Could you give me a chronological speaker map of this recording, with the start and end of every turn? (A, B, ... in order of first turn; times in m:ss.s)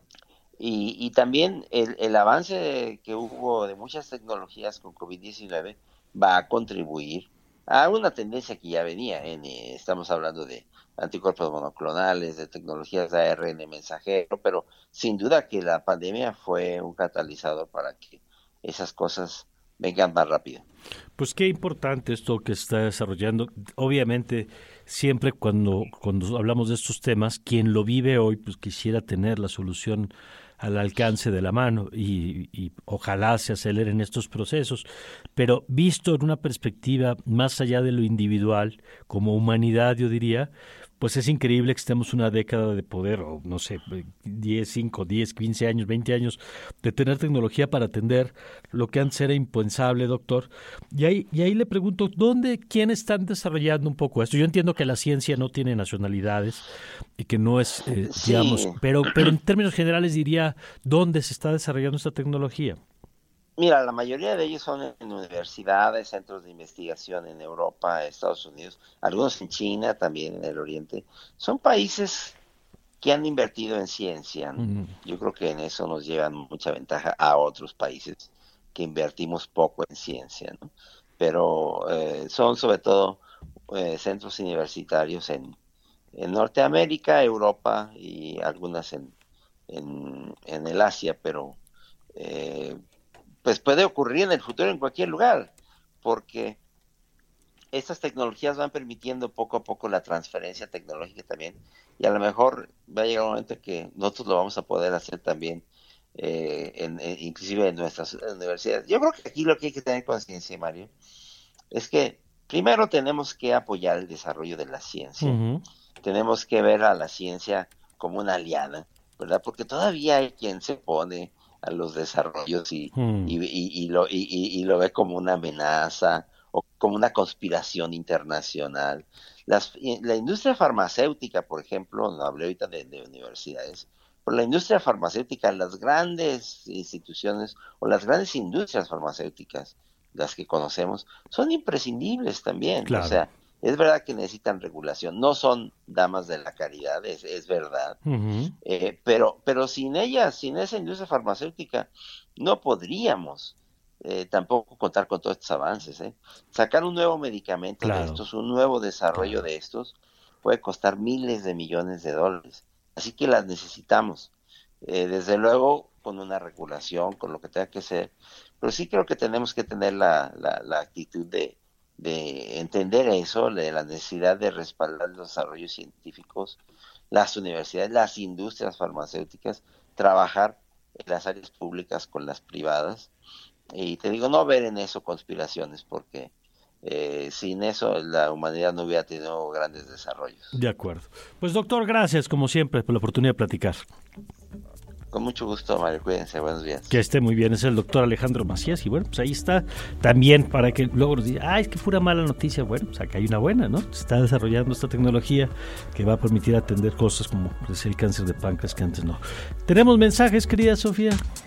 0:00.6-0:20.6 A
0:21.2-1:02.8 B
0:57.9-0:58.8 A
1:03.6-1:12.4 A
1:13.0-1:25.6 A
1:14.6-1:15.0 B
1:26.1-1:29.1 A
1:29.7-1:31.6 A
1:32.2-1:32.8 A
1:33.4-1:35.5 A
1:36.0-1:36.6 A
1:37.7-1:45.6 A
1:46.2-1:50.9 A
1:51.7-1:55.4 A
1:55.2-1:55.6 B
1:56.0-2:28.0 A
2:02.9-2:03.4 B
2:22.8-2:23.2 B
2:28.0-2:28.5 B
2:28.6-2:44.3 A
2:37.8-2:38.2 B
2:44.8-2:56.6 A
2:57.1-3:03.1 A
3:03.7-3:06.3 A
3:06.8-3:10.5 A
3:10.5-3:13.8 B
3:15.1-3:17.0 A
3:16.9-3:31.2 B